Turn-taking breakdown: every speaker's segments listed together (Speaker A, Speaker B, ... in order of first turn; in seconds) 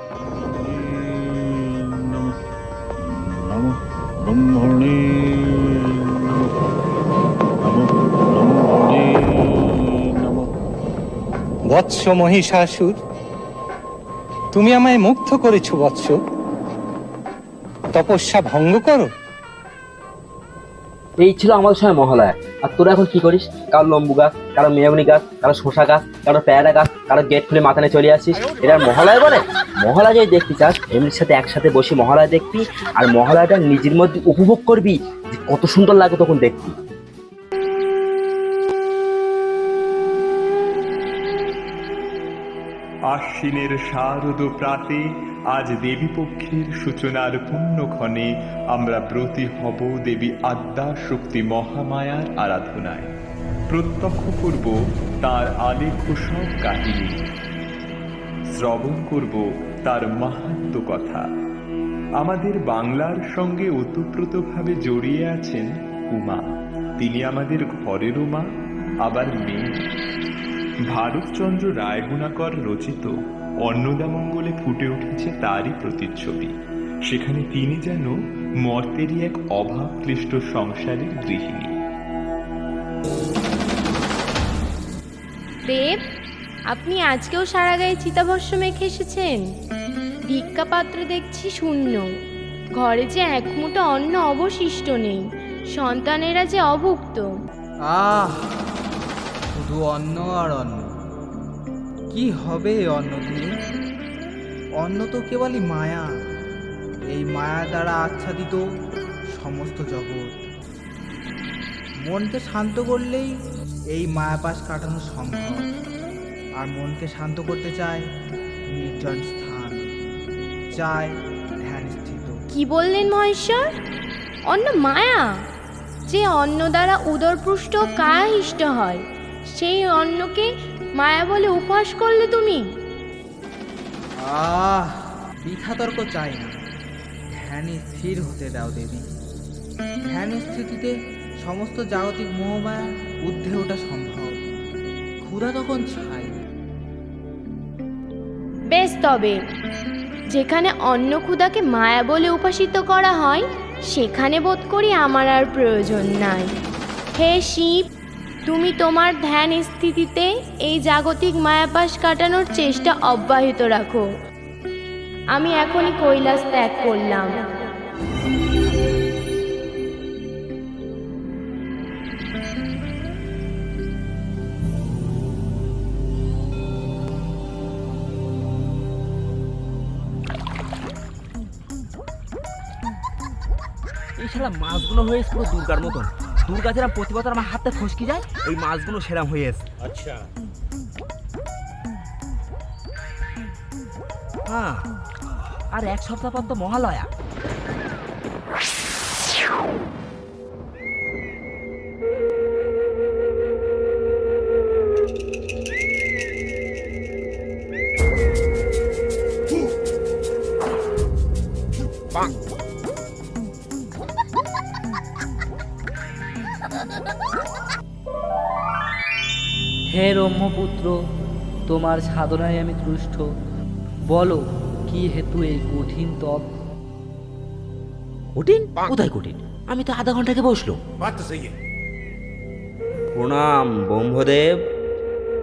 Speaker A: 0.6-2.3, 3.5-6.5, 7.6-10.5, 189.8-190.2
Speaker B: 11.7-13.0, 14.5-16.2, 17.9-19.1
Speaker C: 21.2-36.7, 184.2-189.6, 194.5-194.9, 195.7-197.1, 228.3-230.8, 233.2-234.6
Speaker D: 43.1-45.0, 45.5-53.1, 53.7-57.2, 58.5-61.2, 62.2-66.4, 67.0-68.4, 69.0-69.7, 70.9-73.1, 73.6-76.5, 77.1-78.1, 78.7-81.7
Speaker E: 85.7-86.0, 86.7-89.4, 90.3-92.1, 92.8-97.3, 122.5-123.7, 124.5-125.4, 126.1-132.7, 148.7-149.4, 150.3-156.5, 157.2-157.8, 158.4-164.1, 165.3-167.6
Speaker F: 97.9-98.5, 99.5-100.9, 102.1-103.5, 104.8-106.1, 107.1-108.6, 109.3-110.4, 112.0-113.3, 113.9-115.7, 116.6-118.0, 118.7-119.9, 120.7-122.4, 134.2-136.6, 137.3-139.1, 140.1-144.4, 145.2-146.4
Speaker G: 219.9-221.0, 221.7-223.2, 224.1-226.5